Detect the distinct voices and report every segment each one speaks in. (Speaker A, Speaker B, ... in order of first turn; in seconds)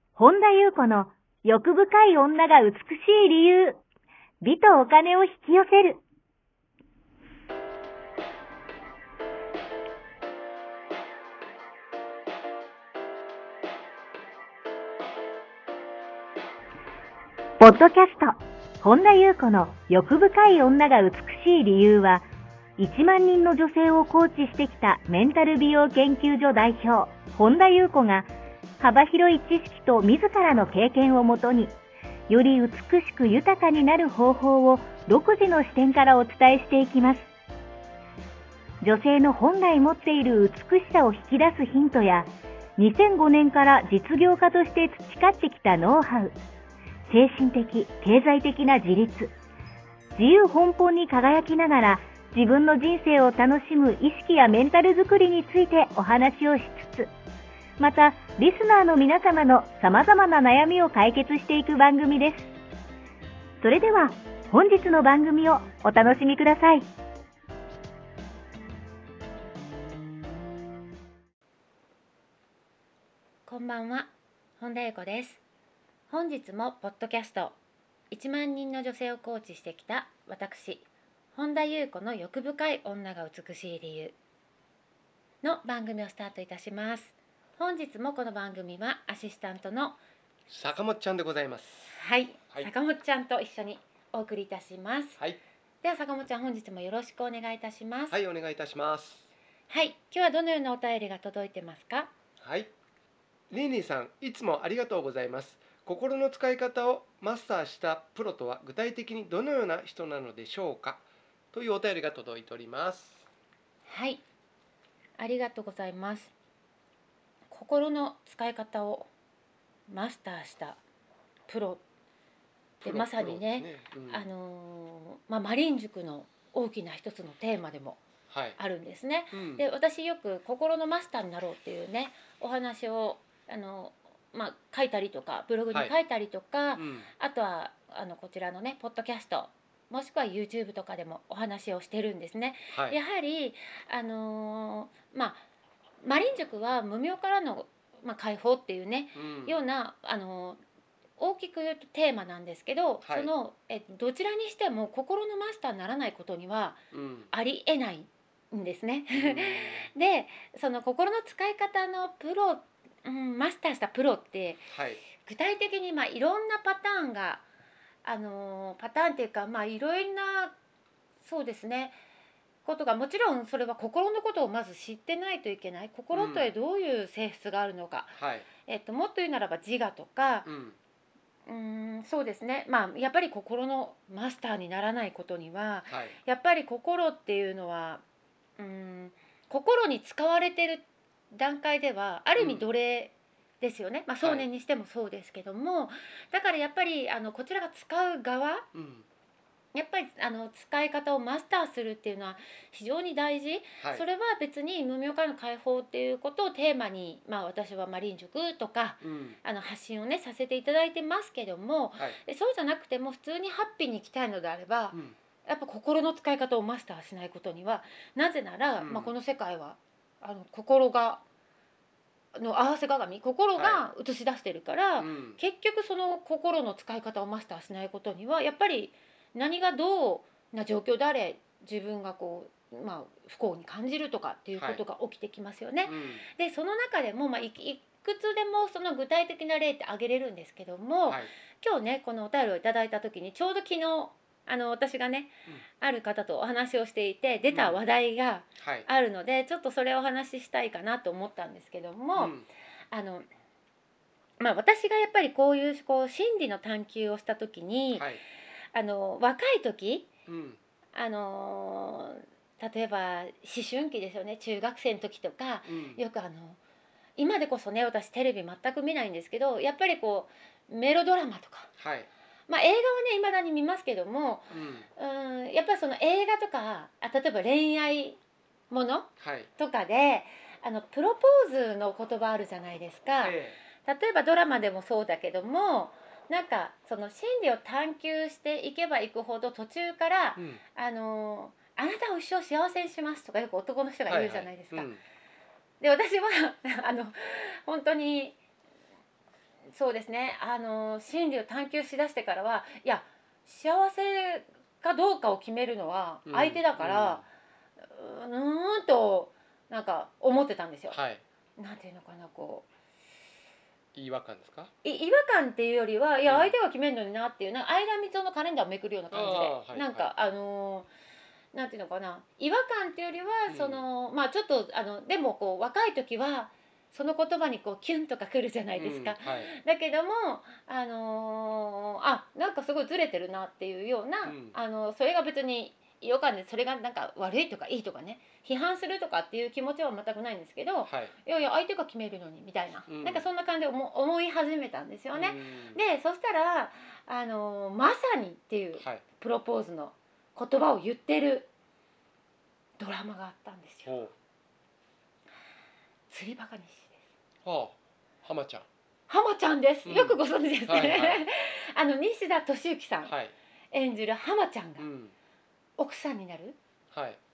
Speaker A: 0.1-3.8, 4.4-6.0, 17.6-22.2, 22.8-28.3, 28.8-31.7, 32.3-37.3, 38.8-46.4, 47.1-49.3, 50.1-57.1, 57.8-62.5, 63.6-66.9
Speaker B: 73.5-75.4, 76.1-77.5, 78.1-84.1, 85.4-90.0, 91.9-95.2, 95.8-98.1, 99.7-102.1, 113.9-114.2, 115.2-116.3, 117.5-119.1, 119.9-120.8, 121.5-121.8, 122.8-128.0, 128.6-145.4, 146.0-150.6, 151.2-167.4, 168.0-170.5, 171.2-171.9, 172.6-180.5, 181.5-188.0, 188.6-198.7, 199.7-221.2, 222.3-252.3, 252.9-253.2, 254.4-258.1, 258.7-260.1, 260.9-266.6, 267.2-271.7, 272.5-278.2, 278.7-294.9, 295.8-298.4, 299.7-307.2, 307.8-311.0, 311.6-312.7, 314.8-320.9, 321.5-351.5, 352.8-353.9, 356.1-356.9, 359.1-363.1, 363.7-364.8, 365.8-366.6
Speaker C: 90.5-92.0, 98.1-99.3, 102.4-102.7, 103.5-113.3, 122.8-124.3, 128.3-128.6, 129.3-129.6, 136.8-137.1, 142.7-143.0, 149.1-149.6, 153.0-153.3, 156.9-157.3, 159.1-159.9, 164.7-165.0, 176.1-176.5, 178.2-178.5, 180.4-180.8, 185.9-186.2, 192.3-192.7, 194.2-194.4, 198.7-199.1, 203.8-204.0, 209.0-209.4, 218.8-219.1, 223.6-223.8, 225.0-225.4, 234.6-234.8, 235.8-236.2, 241.1-241.3, 247.5-247.8, 248.6-248.9, 252.2-252.5, 257.9-258.2, 260.3-260.6, 265.6-266.0, 271.8-272.1, 274.5-274.9, 279.2-279.5, 283.2-283.6, 290.4-290.6, 294.1-295.0, 306.2-307.2, 310.9-311.2, 313.9-314.7, 316.2-316.5, 319.1-320.2, 323.5-323.8, 328.7-329.5, 334.2-334.6, 340.8-341.1, 342.9-343.2, 345.1-345.8, 348.8-349.0, 353.9-354.1, 357.4-358.7, 359.8-361.3, 363.1-363.3, 364.8-365.1, 366.9-367.2